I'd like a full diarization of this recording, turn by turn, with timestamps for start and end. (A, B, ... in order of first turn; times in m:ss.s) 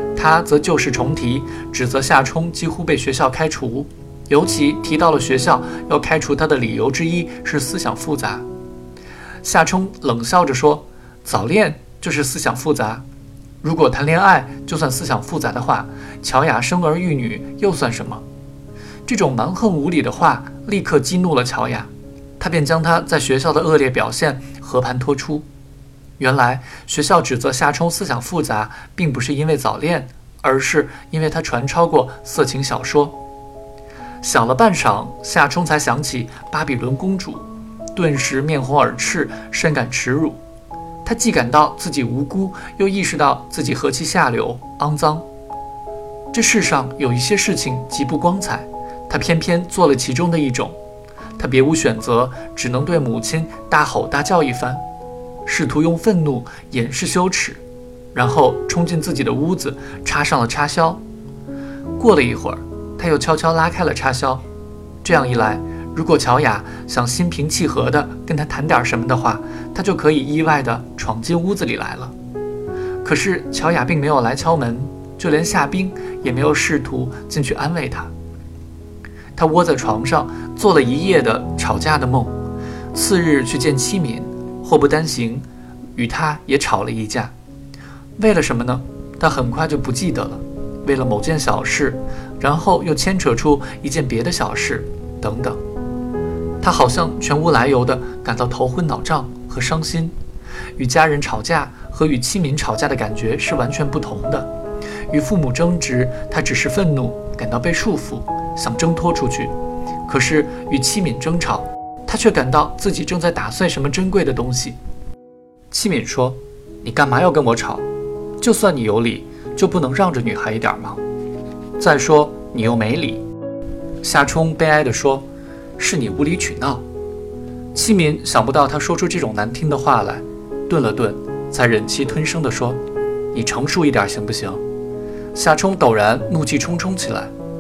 0:00.2-0:08.5 A
0:09.4-0:13.0 A
0:13.6-0:18.2 A
0:19.1-0:25.5 A
0:26.2-0:33.2 A
0:34.2-0:40.4 A
0:41.0-0:45.2 A
0:46.3-0:50.8 A
0:51.4-0:54.8 A
0:55.4-0:57.6 A
0:58.1-1:01.0 A
1:02.0-1:04.4 A
1:05.0-1:12.1 A
1:13.0-1:18.1 A
1:19.4-1:22.4 A
1:22.9-1:25.4 A
1:26.0-1:27.3 A
1:28.2-1:35.6 A
1:36.6-1:40.2 A
1:40.8-1:44.5 A
1:45.1-1:49.5 A
1:50.1-1:54.8 A
1:55.7-1:57.9 A
1:58.4-2:01.0 A
2:01.8-2:03.2 A
2:04.0-2:05.3 A
2:05.8-2:06.8 A
2:07.7-2:12.8 A
2:13.3-2:14.6 A
2:15.3-2:17.3 A